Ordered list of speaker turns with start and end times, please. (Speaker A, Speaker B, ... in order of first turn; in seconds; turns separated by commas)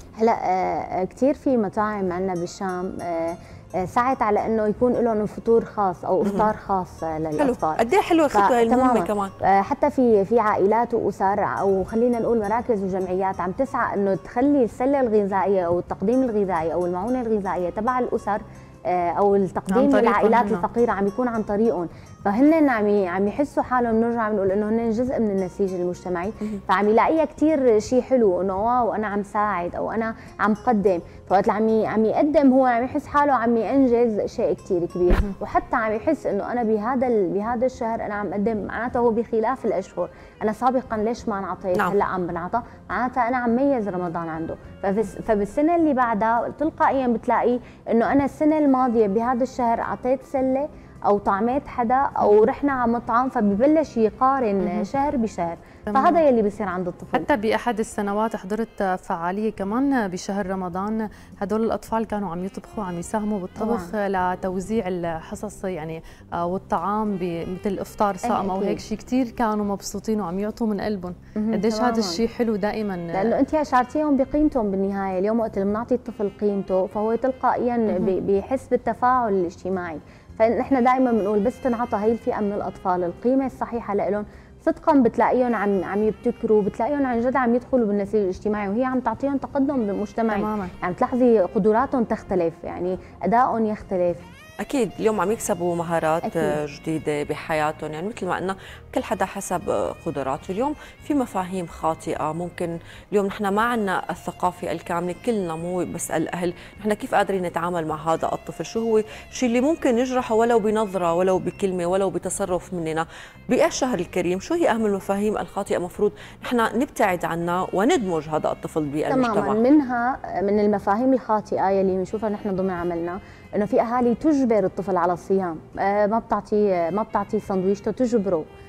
Speaker A: 0.2-7.8, Speaker B: 6.2-6.5, Speaker B: 7.4-9.4, Speaker A: 8.3-57.3, Speaker C: 19.7-20.6, Speaker C: 52.2-52.5, Speaker C: 54.6-54.9, Speaker C: 55.9-56.2, Speaker C: 57.1-73.3, Speaker A: 63.6-63.9, Speaker A: 68.2-68.8, Speaker A: 71.4-72.2, Speaker A: 73.1-94.2, Speaker C: 90.3-90.7, Speaker B: 94.6-119.6, Speaker A: 96.2-96.6, Speaker A: 119.1-128.5